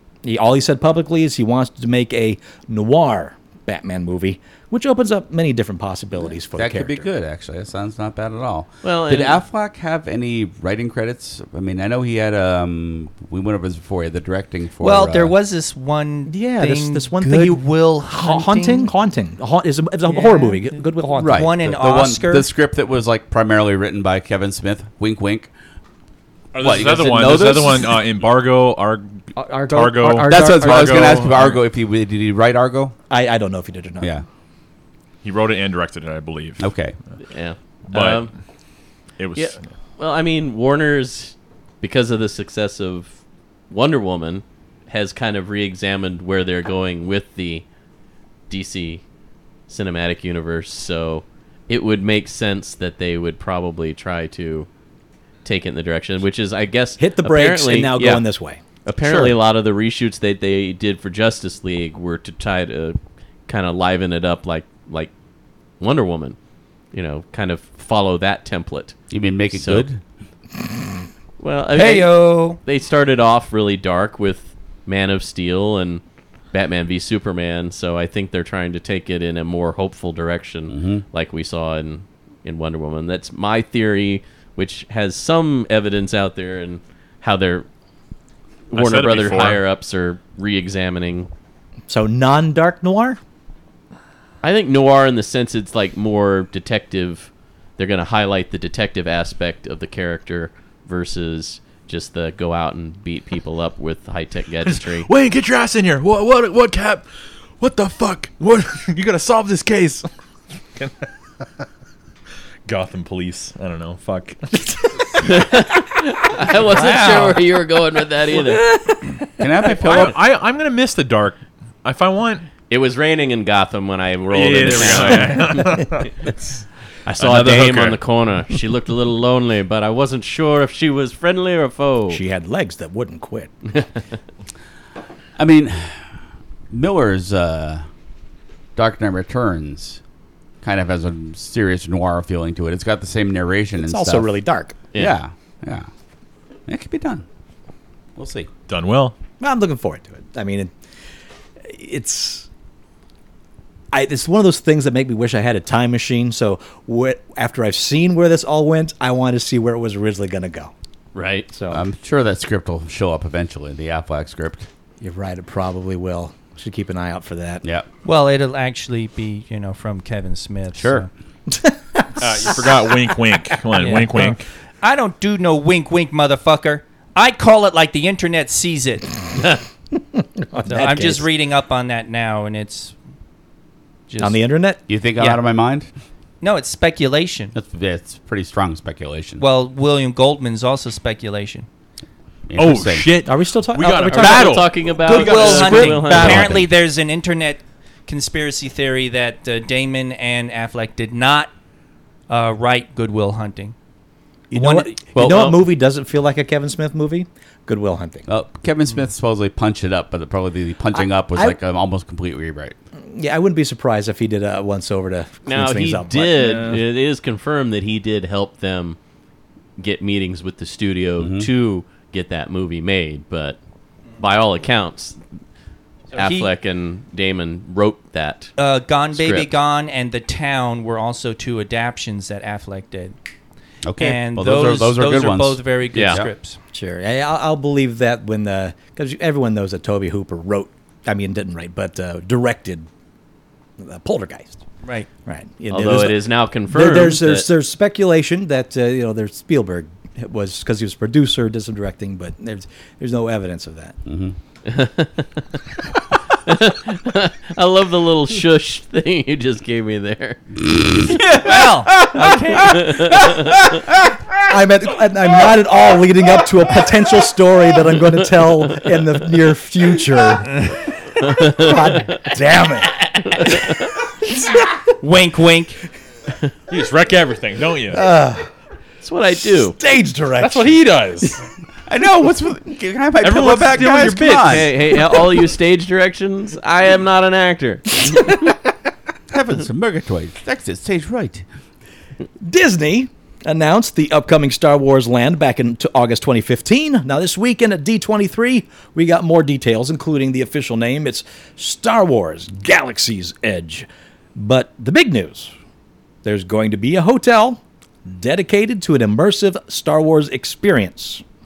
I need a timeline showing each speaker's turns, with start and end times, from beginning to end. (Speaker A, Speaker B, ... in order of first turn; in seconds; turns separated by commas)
Speaker A: 0.2-7.0, Speaker B: 6.5-15.3, Speaker C: 8.8-9.4, Speaker D: 14.8-18.9, Speaker A: 16.3-21.6, Speaker D: 20.1-20.6, Speaker D: 21.1-22.5, Speaker B: 21.1-25.5, Speaker E: 26.5-31.6, Speaker B: 26.6-28.0, Speaker A: 29.4-31.2, Speaker B: 30.2-32.9, Speaker A: 33.1-34.1, Speaker E: 35.2-36.6, Speaker B: 36.6-36.9, Speaker C: 37.3-38.3, Speaker E: 37.9-38.3, Speaker E: 39.2-39.6, Speaker C: 39.4-43.1, Speaker C: 43.7-47.6, Speaker C: 48.5-49.0, Speaker C: 49.7-54.7, Speaker C: 55.4-58.2, Speaker A: 57.0-58.6, Speaker C: 58.8-65.1, Speaker B: 59.0-59.4, Speaker C: 65.8-66.3, Speaker C: 66.9-69.0, Speaker B: 69.1-70.0, Speaker C: 69.5-69.9, Speaker C: 71.4-87.7, Speaker D: 71.7-72.6, Speaker B: 80.7-81.0, Speaker C: 88.7-91.3, Speaker E: 88.7-89.6, Speaker A: 91.9-93.2, Speaker C: 94.4-105.1, Speaker E: 104.7-107.0, Speaker E: 107.6-110.0, Speaker E: 110.8-111.1, Speaker E: 112.7-114.4, Speaker C: 115.2-118.6, Speaker D: 116.7-117.4, Speaker B: 119.4-120.2, Speaker E: 119.6-122.5, Speaker C: 122.7-125.9, Speaker E: 124.3-126.5, Speaker C: 127.2-132.2, Speaker E: 127.2-128.0, Speaker A: 132.1-133.8, Speaker B: 135.4-136.1, Speaker B: 136.7-137.8, Speaker B: 138.8-140.0, Speaker B: 140.6-144.3, Speaker A: 143.8-144.8, Speaker B: 144.9-145.9, Speaker B: 146.7-147.2, Speaker B: 148.2-148.5, Speaker E: 148.7-149.2, Speaker A: 149.4-150.7, Speaker A: 151.7-152.5, Speaker A: 153.9-160.7, Speaker C: 161.1-161.5, Speaker A: 161.5-161.8, Speaker B: 161.7-164.7, Speaker A: 165.0-167.6, Speaker D: 168.0-171.1, Speaker B: 170.7-171.1, Speaker A: 171.5-172.9, Speaker E: 172.2-174.4, Speaker D: 173.8-179.1, Speaker A: 180.4-181.3, Speaker D: 180.7-182.9, Speaker D: 184.1-184.4, Speaker A: 184.2-184.8, Speaker B: 184.9-185.9, Speaker D: 185.2-185.4, Speaker D: 186.4-187.5, Speaker B: 187.5-189.4, Speaker D: 189.4-191.7, Speaker B: 192.5-193.1, Speaker E: 192.5-196.0, Speaker A: 193.2-196.3, Speaker C: 194.1-196.5, Speaker D: 195.1-201.5, Speaker B: 196.1-196.7, Speaker D: 202.3-203.7, Speaker A: 204.5-208.3, Speaker D: 204.5-204.9, Speaker C: 205.1-205.6, Speaker B: 208.3-212.8, Speaker A: 210.9-211.6, Speaker A: 213.1-216.7, Speaker C: 215.4-219.0, Speaker C: 219.8-223.6, Speaker B: 221.2-221.5, Speaker C: 224.2-225.2, Speaker D: 226.1-226.5, Speaker C: 226.1-228.5, Speaker D: 228.6-233.1, Speaker C: 229.2-229.5, Speaker B: 233.8-236.3, Speaker D: 234.0-236.6, Speaker C: 235.9-236.2, Speaker A: 236.7-242.9, Speaker A: 243.8-244.6, Speaker D: 244.8-245.1, Speaker A: 245.2-254.0, Speaker C: 245.7-247.5, Speaker B: 254.1-254.3, Speaker C: 254.7-255.3, Speaker C: 256.4-260.4, Speaker B: 260.7-262.3, Speaker D: 261.4-262.9, Speaker A: 262.3-263.5, Speaker C: 262.6-263.7, Speaker A: 264.4-274.8, Speaker C: 271.2-272.0, Speaker C: 273.2-273.9, Speaker D: 275.0-275.8, Speaker E: 276.7-278.1, Speaker A: 277.9-278.5, Speaker C: 279.0-279.8, Speaker A: 279.5-280.8, Speaker E: 280.4-281.4, Speaker B: 281.9-284.7, Speaker E: 283.2-284.7, Speaker C: 284.4-288.4, Speaker B: 289.3-291.4, Speaker A: 292.4-305.5, Speaker A: 306.2-311.2